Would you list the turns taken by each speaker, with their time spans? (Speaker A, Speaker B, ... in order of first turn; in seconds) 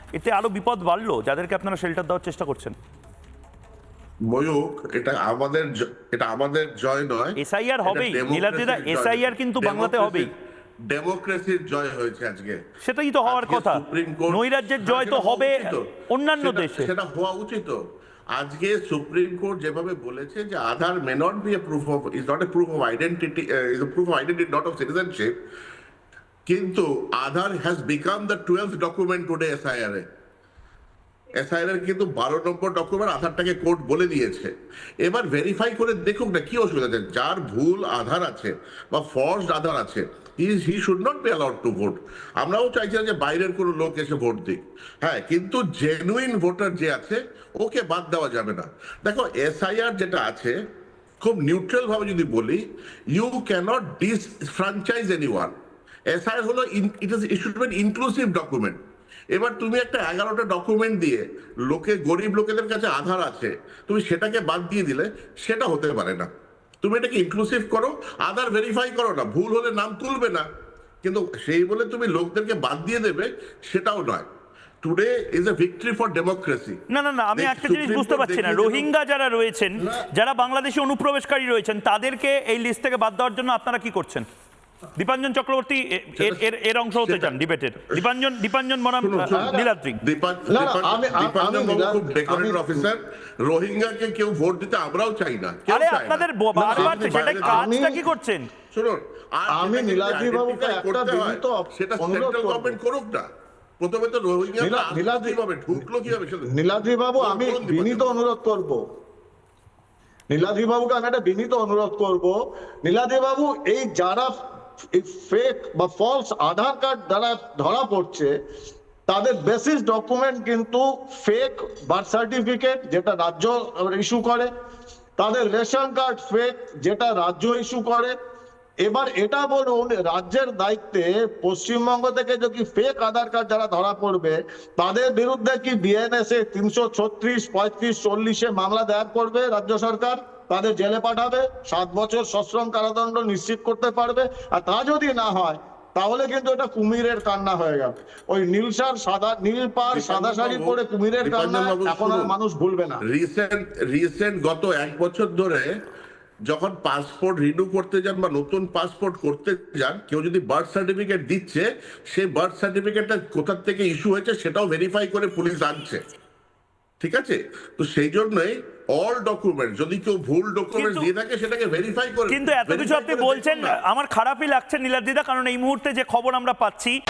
Speaker A: 0.1-2.8, 7.4-10.3, 12.8-16.9, 76.9-84.3, 85.0-90.0, 95.7-98.5, 170.8-171.1, 172.3-176.9
Speaker B: 4.2-10.3, 10.9-12.6, 13.2-15.9, 16.4-17.8, 18.3-25.3, 26.5-30.0, 31.4-34.5, 35.0-50.5, 51.2-55.5, 56.1-58.8, 59.3-66.3, 66.8-70.4, 71.0-74.3, 74.8-76.8, 77.3-78.9, 86.2-86.5, 87.0-87.4, 89.0-97.7, 98.7-103.3, 103.8-106.5, 107.2-108.2, 149.9-152.3, 153.0-155.7, 156.5-166.0, 167.0-173.8
Speaker C: 89.3-89.7, 90.5-92.9, 96.5-98.0, 99.5-102.8, 104.6-105.4, 106.5-108.8, 110.3-114.3, 115.0-118.3, 119.1-124.5, 125.2-128.1, 128.8-153.0